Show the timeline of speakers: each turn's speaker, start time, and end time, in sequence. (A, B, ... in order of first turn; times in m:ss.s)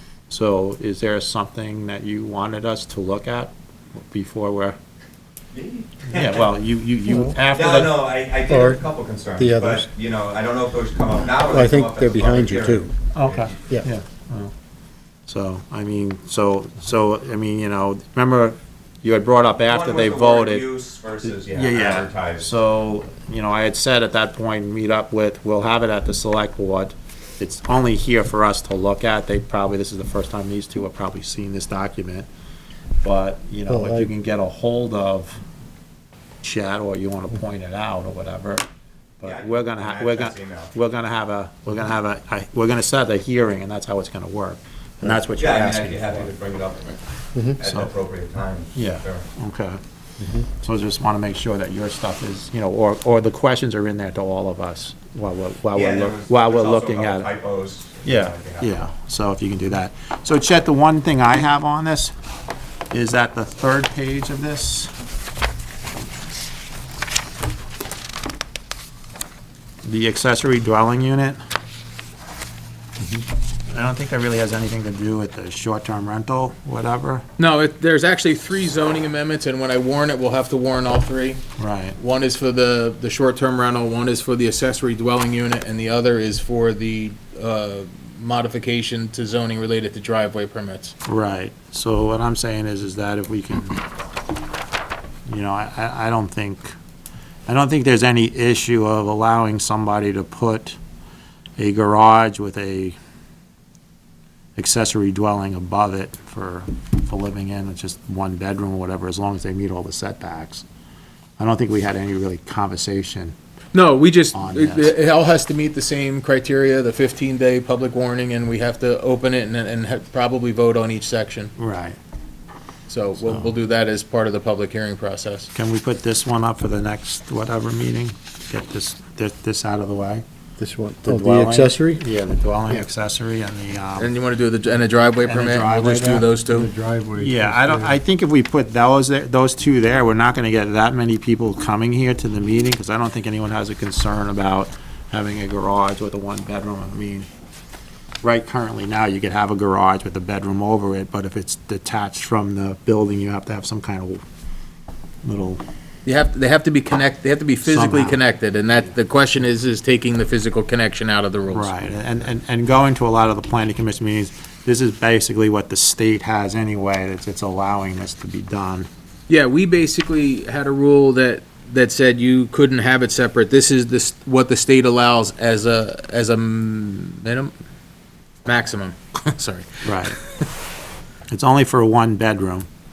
0:00.3-0:04.8 A
0:05.5-0:06.4 B
0:06.1-0:08.1 A
0:07.4-0:13.6 B
0:08.5-0:09.9 C
0:11.4-0:12.9 C
0:13.1-0:14.5 A
0:15.3-0:20.7 A
0:19.6-0:22.5 B
0:21.2-0:32.3 A
0:33.0-0:35.4 A
0:33.7-0:34.1 C
0:36.4-0:38.6 A
0:39.2-0:46.3 A
0:39.2-0:40.7 B
0:45.4-0:49.2 B
0:47.6-0:47.9 A
0:48.7-0:49.8 A
0:50.2-0:50.4 C
0:50.5-0:57.3 A
0:55.7-0:58.9 B
0:58.0-1:02.1 A
1:02.9-1:04.9 A
1:09.8-1:11.4 A
1:13.7-1:17.2 A
1:17.4-1:21.4 D
1:21.6-1:22.0 A
1:22.0-1:30.9 D
1:31.0-1:33.8 A
1:35.3-1:36.7 A
1:37.5-1:40.8 A
1:41.6-1:43.0 A
1:44.6-1:50.6 A
1:51.4-1:53.3 A
1:53.7-2:01.5 D
1:54.3-1:54.9 A
2:01.6-2:02.0 A
2:02.9-2:05.5 D
2:05.5-2:10.2 A
2:10.6-2:12.0 C
2:11.0-2:14.1 A
2:14.0-2:16.7 D
2:15.2-2:16.2 A
2:16.4-2:18.0 C
2:17.2-2:27.3 A
2:28.2-2:34.2 A
2:35.2-2:35.6 A
2:36.0-2:41.7 D
2:37.6-2:38.2 A
2:41.5-2:48.9 A
2:49.3-2:57.5 D
2:58.4-3:00.4 D
2:59.8-3:00.2 A
3:01.3-3:02.7 A